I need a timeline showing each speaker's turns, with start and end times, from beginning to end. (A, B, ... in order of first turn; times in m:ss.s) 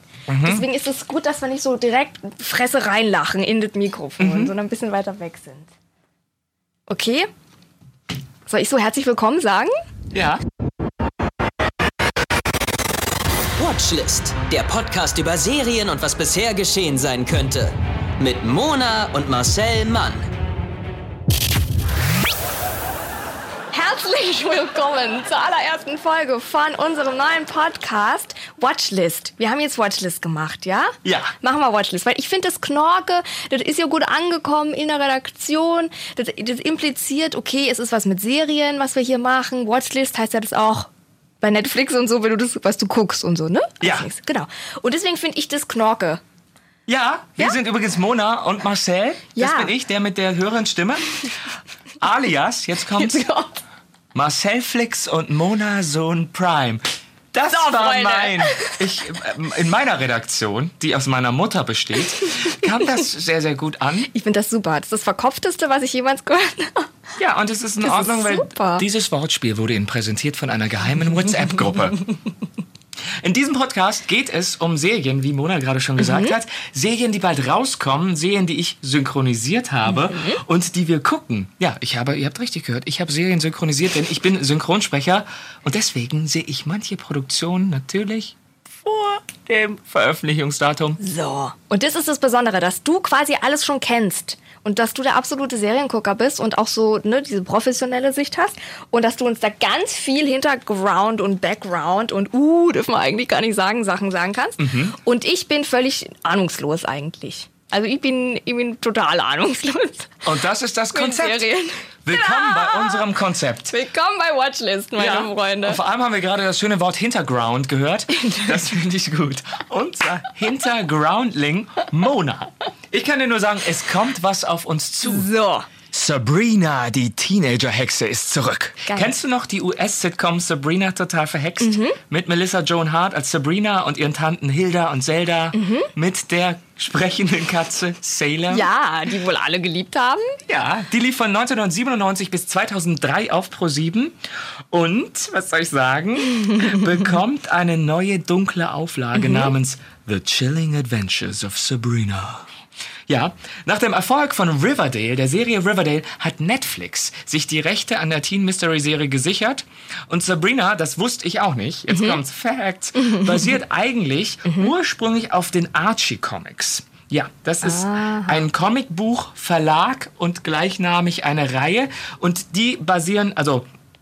0:00.3-0:00.6 A
0:00.4-0:05.7 B
0:04.2-0:04.5 A
0:06.9-0:07.3 B
0:08.4-0:09.7 B
0:10.1-0:10.4 A
0:13.6-0:20.2 C
0:23.7-0:40.9 B
0:31.0-0:31.3 A
0:41.4-0:46.2 B
0:43.8-0:44.1 A
0:46.9-0:51.1 A
0:49.3-0:49.7 B
0:52.0-0:53.3 A
0:53.0-0:53.6 B
0:54.1-1:04.1 A
0:57.5-0:58.8 B
1:04.1-1:06.9 B
1:07.2-1:12.0 A
1:07.8-1:08.8 B
1:13.2-1:31.0 A
1:16.0-1:16.3 B
1:19.9-1:20.4 B
1:31.0-1:50.2 B
1:44.6-1:45.0 A
1:50.2-1:51.4 A
1:50.9-1:53.1 B
1:52.0-1:53.7 A
1:53.7-1:55.8 B
1:55.0-2:05.3 A
1:58.2-1:58.6 B
2:05.0-2:05.7 B
2:05.9-2:18.7 A
2:08.8-2:09.1 B
2:11.6-2:12.0 B
2:15.5-2:15.9 B
2:18.5-2:20.4 B
2:20.5-2:24.2 A
2:24.7-2:32.5 A
2:29.1-2:29.5 B
2:33.1-2:53.6 A
2:41.9-2:42.2 B
2:47.6-2:48.4 B